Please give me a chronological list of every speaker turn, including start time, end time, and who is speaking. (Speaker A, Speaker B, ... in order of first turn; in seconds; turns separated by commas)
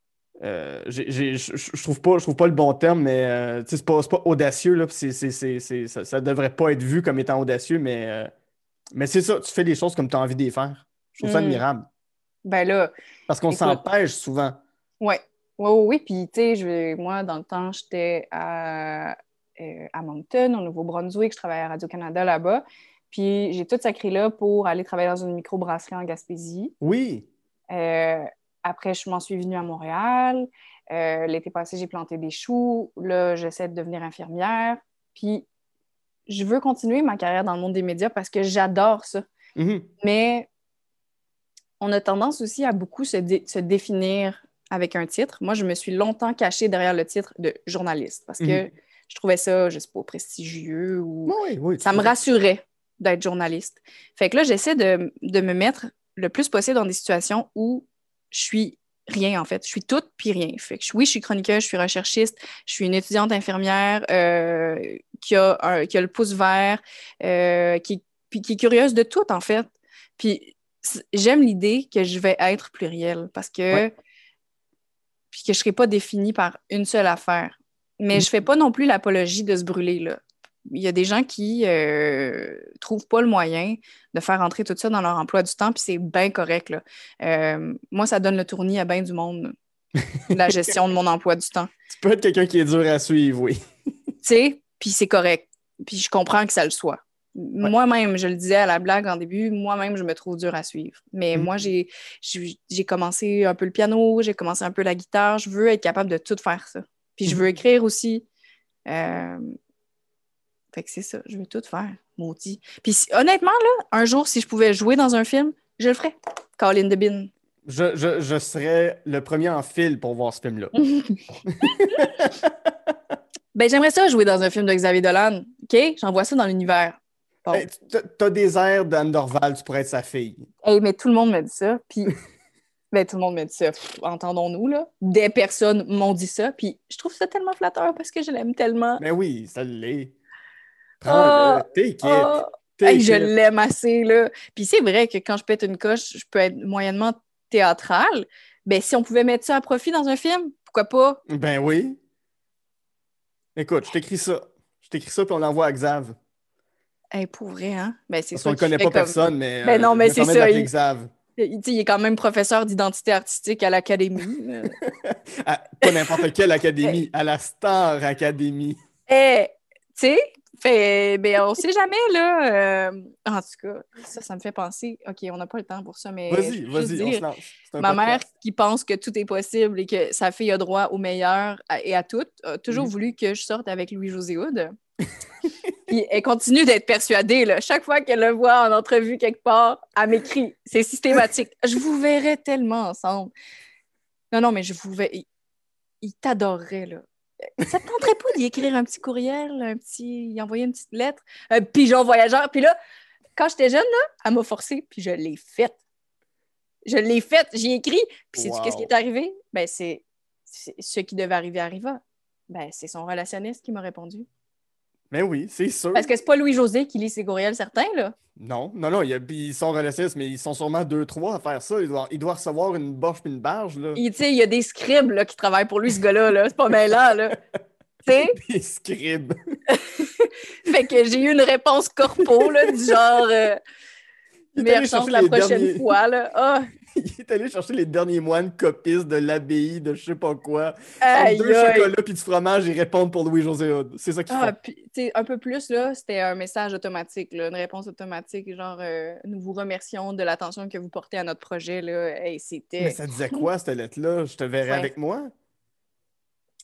Speaker A: 0.4-8.3, Speaker A: 8.9-11.9, Speaker B: 11.2-11.6, Speaker B: 12.4-12.9, Speaker A: 13.3-14.6, Speaker B: 13.5-13.8, Speaker B: 15.0-26.7, Speaker A: 26.8-27.3, Speaker B: 27.7-35.5, Speaker B: 36.3-39.2, Speaker A: 39.6-39.9, Speaker B: 40.0-40.5, Speaker B: 41.8-73.9, Speaker A: 51.3-52.1, Speaker B: 75.3-89.5, Speaker A: 90.0-90.4, Speaker B: 90.3-91.7, Speaker A: 91.9-93.6, Speaker B: 94.2-108.2, Speaker B: 108.9-109.5, Speaker B: 110.7-117.3, Speaker A: 117.7-120.7, Speaker B: 120.7-122.0, Speaker A: 121.5-122.9, Speaker B: 123.5-127.7, Speaker A: 127.5-130.5, Speaker B: 130.6-132.1, Speaker B: 132.9-139.0, Speaker A: 139.0-140.1, Speaker A: 141.0-143.3, Speaker B: 141.0-151.2, Speaker A: 151.3-152.0, Speaker A: 153.6-156.2, Speaker B: 157.1-160.7, Speaker A: 158.3-161.1, Speaker B: 161.4-164.8, Speaker A: 164.9-168.8, Speaker B: 165.8-166.2, Speaker B: 169.1-177.2, Speaker A: 176.3-178.2, Speaker B: 177.8-184.7, Speaker B: 185.9-193.3, Speaker B: 194.3-195.2, Speaker B: 196.0-197.0, Speaker B: 197.6-202.7, Speaker B: 203.3-205.8, Speaker B: 206.8-214.3, Speaker A: 208.3-208.9, Speaker A: 215.1-216.1, Speaker B: 215.9-218.1, Speaker A: 218.4-224.0, Speaker B: 223.9-227.3, Speaker B: 228.0-228.4, Speaker A: 228.3-229.3, Speaker B: 229.7-233.6, Speaker A: 232.2-232.9, Speaker A: 234.5-235.8, Speaker B: 234.6-236.7, Speaker A: 236.9-244.5, Speaker B: 241.0-241.9, Speaker B: 244.3-253.4, Speaker A: 252.8-255.3